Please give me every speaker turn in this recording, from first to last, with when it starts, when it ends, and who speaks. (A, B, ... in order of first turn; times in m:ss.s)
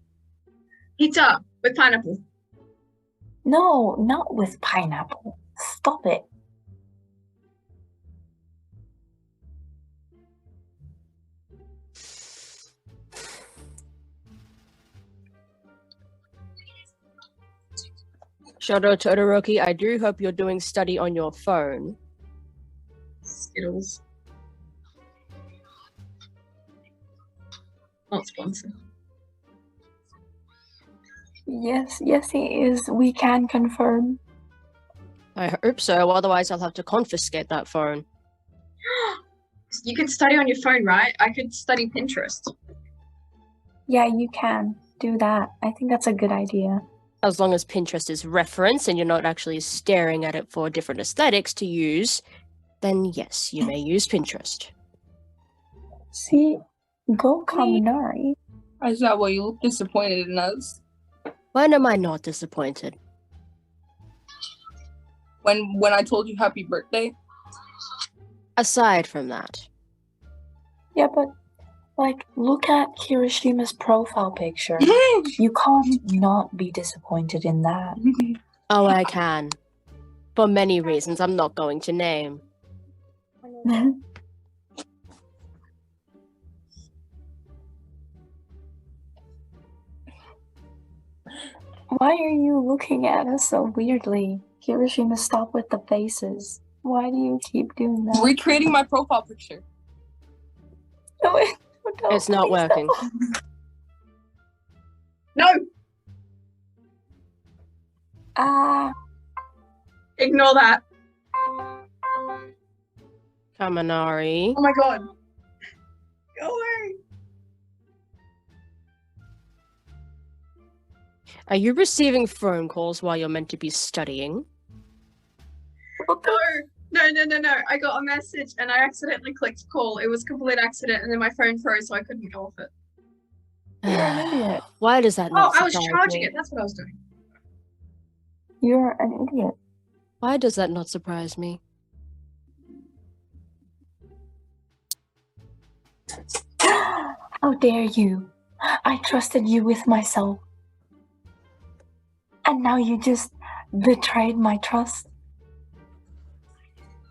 0:01.0-0:02.2 A
0:03.4-0:06.3 B
0:18.6-0:22.0 C
0:23.3-0:24.0 A
0:28.1-0:28.7 A
0:31.5-0:34.2 B
0:35.4-0:38.0 C
0:38.9-0:39.2 A
0:39.7-0:42.5 A
0:43.9-0:46.8 B
0:47.2-0:52.2 C
0:52.8-0:54.7 C
0:56.1-0:56.6 B
0:57.1-0:58.4 B
0:57.5-0:57.8 D
0:58.8-1:00.8 D
1:01.5-1:03.0 C
1:05.4-1:07.2 D
1:08.6-1:09.6 C
1:10.9-1:11.3 B
1:12.0-1:18.0 B
1:14.8-1:15.3 D
1:18.0-1:18.4 D
1:18.7-1:19.6 C
1:20.4-1:22.4 C
1:23.6-1:24.0 B
1:31.9-1:38.3 B
1:38.1-1:39.6 D
1:41.2-1:42.9 B
1:42.1-1:42.9 C
1:48.4-1:48.9 B
1:50.2-1:50.8 A
1:53.6-1:54.6 C
1:54.5-1:55.1 A
1:56.4-1:57.0 A
2:01.5-2:04.4 C
2:06.0-2:06.4 B
2:06.2-2:12.7 A
2:13.8-2:16.3 C
2:13.8-2:14.6 B
2:15.3-2:17.0 A
2:18.6-2:19.5 B
2:20.2-2:21.6 C
2:26.8-2:30.4 B
2:32.5-2:35.1 B